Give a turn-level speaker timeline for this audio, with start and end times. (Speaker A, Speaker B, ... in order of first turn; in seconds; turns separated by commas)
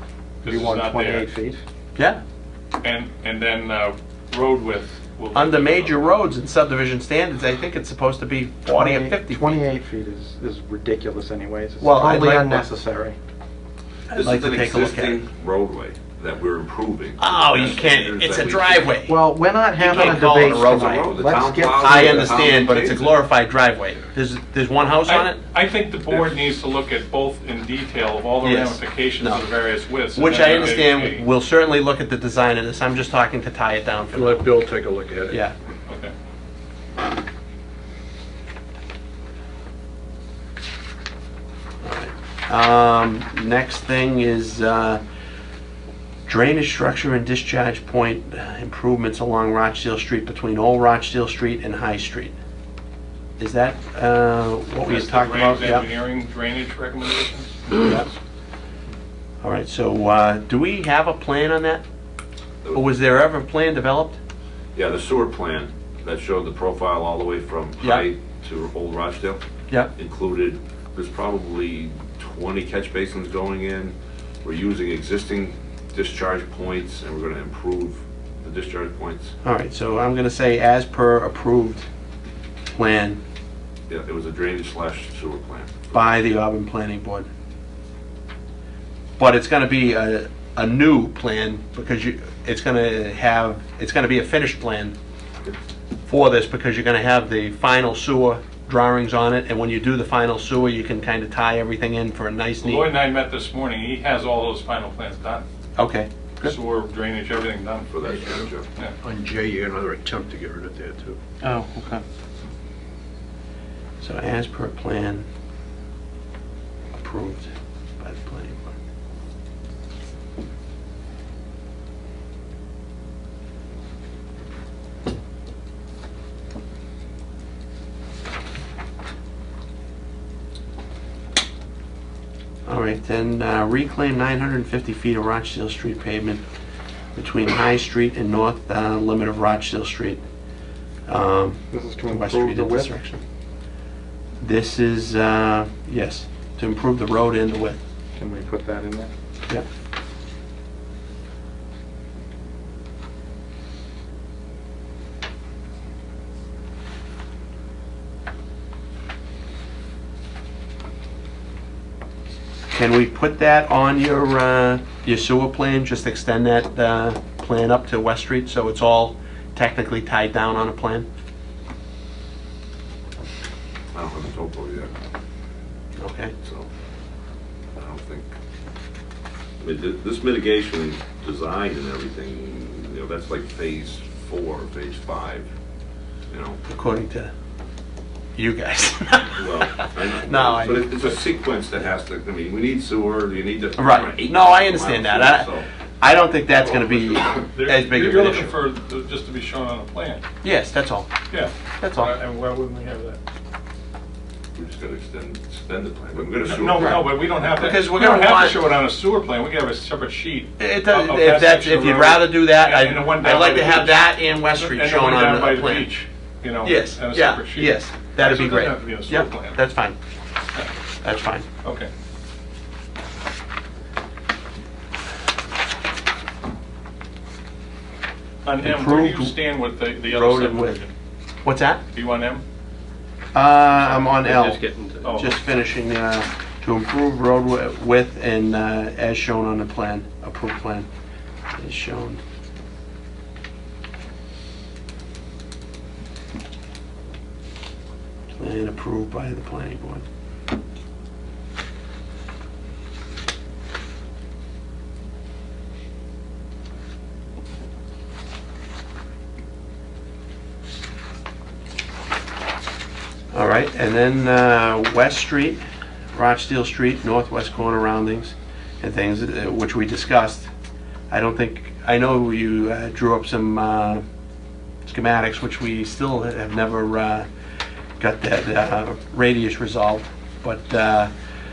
Speaker A: 0.4-1.3, Speaker B: 0.4-1.6, Speaker C: 1.9-2.2, Speaker A: 2.8-6.1, Speaker C: 5.3-9.6, Speaker B: 8.7-13.2, Speaker C: 11.8-12.7, Speaker C: 14.1-15.2, Speaker D: 14.1-18.9, Speaker C: 17.2-19.2, Speaker B: 19.1-22.5, Speaker C: 19.8-21.1, Speaker D: 19.8-23.2, Speaker C: 21.8-25.4, Speaker A: 25.0-31.2, Speaker D: 26.1-26.3, Speaker C: 28.4-29.5, Speaker C: 30.1-34.5, Speaker E: 34.1-35.4, Speaker C: 35.3-35.5, Speaker A: 35.9-36.1, Speaker C: 41.8-45.0, Speaker C: 46.2-52.3, Speaker C: 53.4-55.9, Speaker A: 54.8-58.1, Speaker C: 57.8-58.0, Speaker C: 59.4-61.8, Speaker D: 62.6-62.9, Speaker C: 62.7-64.2, Speaker D: 64.7-69.4, Speaker C: 67.8-68.1, Speaker D: 69.9-79.3, Speaker C: 79.4-81.9, Speaker C: 82.7-83.2, Speaker D: 83.9-86.4, Speaker C: 85.9-87.3, Speaker C: 89.2-95.0, Speaker C: 96.1-102.9, Speaker A: 102.6-105.5, Speaker C: 105.8-106.6, Speaker A: 106.4-107.9, Speaker D: 107.9-108.7, Speaker E: 109.0-111.2, Speaker C: 114.0-115.2, Speaker C: 116.9-118.8, Speaker C: 132.7-136.4, Speaker C: 137.1-140.2, Speaker C: 141.1-143.2, Speaker B: 141.7-142.9, Speaker C: 144.4-147.8, Speaker B: 148.2-149.1, Speaker C: 162.7-171.1, Speaker D: 173.9-174.9, Speaker C: 176.0-176.3, Speaker D: 176.4-176.7, Speaker D: 177.8-178.3, Speaker D: 179.6-185.5, Speaker D: 186.3-186.6, Speaker C: 186.7-187.3, Speaker C: 188.3-190.9, Speaker D: 189.3-195.7, Speaker C: 193.8-198.5, Speaker D: 196.5-197.3, Speaker A: 197.3-200.2, Speaker C: 200.4-201.1, Speaker A: 201.3-203.2, Speaker C: 201.8-202.1, Speaker D: 204.5-207.0, Speaker A: 206.4-219.6, Speaker C: 206.7-208.6, Speaker C: 210.6-215.9, Speaker C: 216.6-220.0, Speaker C: 221.0-221.4, Speaker A: 221.6-221.9, Speaker A: 228.4-230.9, Speaker C: 228.6-229.3, Speaker C: 230.1-230.8, Speaker C: 231.4-231.8, Speaker A: 231.9-232.4, Speaker C: 233.3-240.9, Speaker E: 234.1-235.2, Speaker A: 235.0-235.3, Speaker C: 241.6-242.2, Speaker C: 248.3-250.0, Speaker C: 263.3-265.6, Speaker C: 266.1-270.5, Speaker C: 271.1-274.0, Speaker C: 274.9-277.3, Speaker C: 278.0-281.1